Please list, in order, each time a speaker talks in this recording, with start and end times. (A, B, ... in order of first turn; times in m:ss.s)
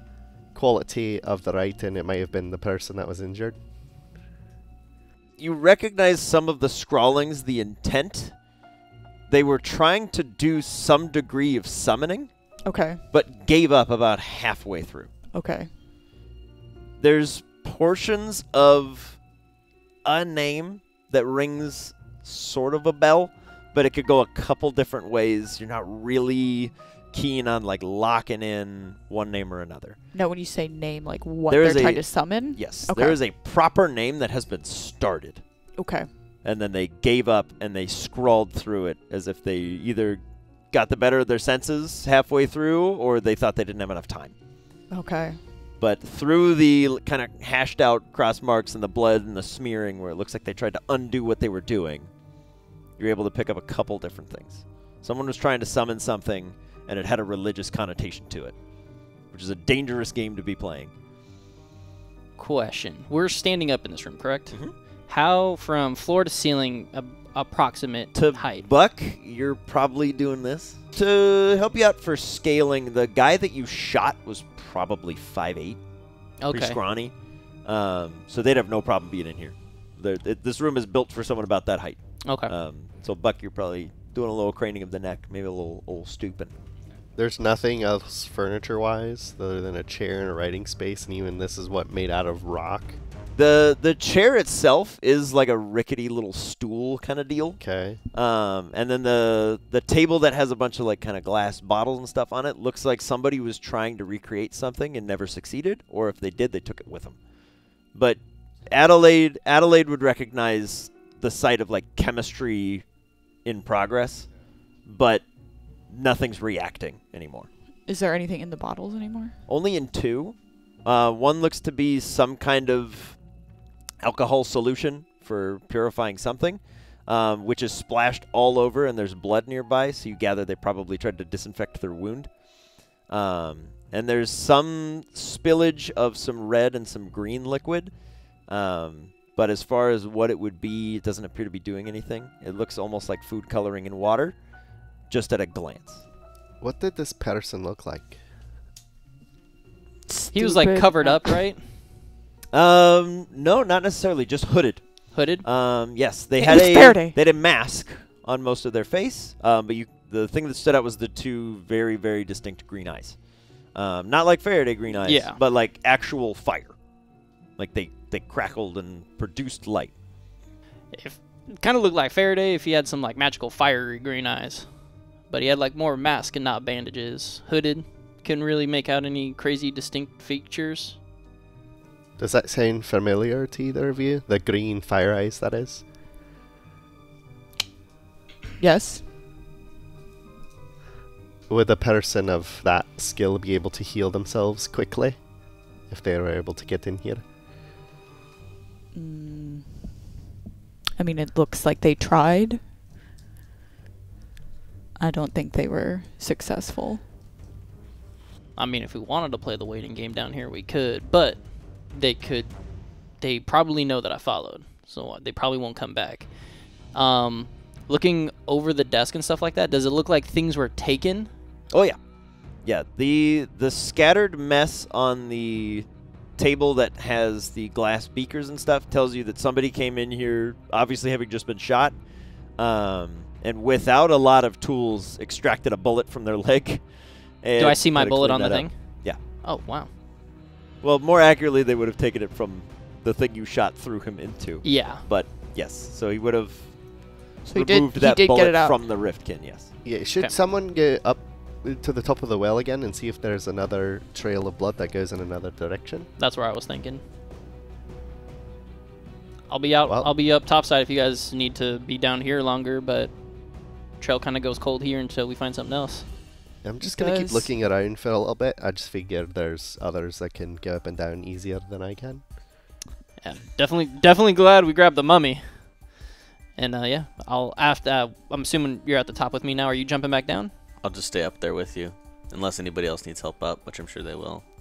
0:00.4-0:03.6 A
0:05.4-0:08.4 B
0:09.3-0:12.5 B
0:12.6-0:13.0 C
0:13.1-0:15.1 B
0:15.3-0:15.7 C
0:17.0-0:19.2 B
0:20.0-0:30.0 B
0:30.1-0:33.2 C
0:31.5-0:35.4 B
0:35.8-0:36.1 C
0:36.4-0:44.3 B
0:44.9-0:45.4 C
0:45.8-0:52.1 B
0:53.0-0:58.6 B
0:59.2-1:00.9 B
1:02.4-1:08.7 D
1:08.1-1:15.8 B
1:16.4-1:16.8 D
1:16.5-1:26.5 B
1:22.2-1:22.5 D
1:27.2-1:33.0 A
1:33.4-1:47.2 B
1:37.6-1:38.0 A
1:47.9-1:52.9 B
1:53.4-1:54.3 B
1:54.8-1:55.2 B
1:55.9-1:57.5 B
1:57.9-1:59.4 C
1:59.5-2:03.2 B
2:04.0-2:12.4 B
2:13.0-2:24.4 B
2:25.1-2:26.0 B
2:26.6-2:28.2 A
2:30.1-2:31.4 C
2:30.3-2:31.7 D
2:32.5-2:46.8 B
2:35.1-2:35.4 D
2:36.4-2:37.2 C
2:45.0-2:45.4 D
2:47.6-2:50.0 B
2:50.9-3:01.0 D
3:02.2-3:05.8 A
3:08.6-3:09.0 C
3:11.5-3:17.2 A
3:18.9-3:20.1 C
3:21.0-3:22.6 C
3:25.0-3:27.0 C
3:28.6-3:41.3 D
3:41.7-3:42.0 B
3:42.5-3:59.2 B
3:57.6-3:59.9 D
4:00.8-4:09.7 B
4:04.6-4:05.1 D
4:07.5-4:08.8 C
4:09.8-4:16.1 A
4:16.2-4:17.0 D
4:19.5-4:26.1 D
4:19.8-4:20.1 A
4:26.6-4:32.2 A
4:26.8-4:27.5 D
4:33.2-4:36.0 D
4:36.6-4:40.5 D
4:40.8-4:44.4 E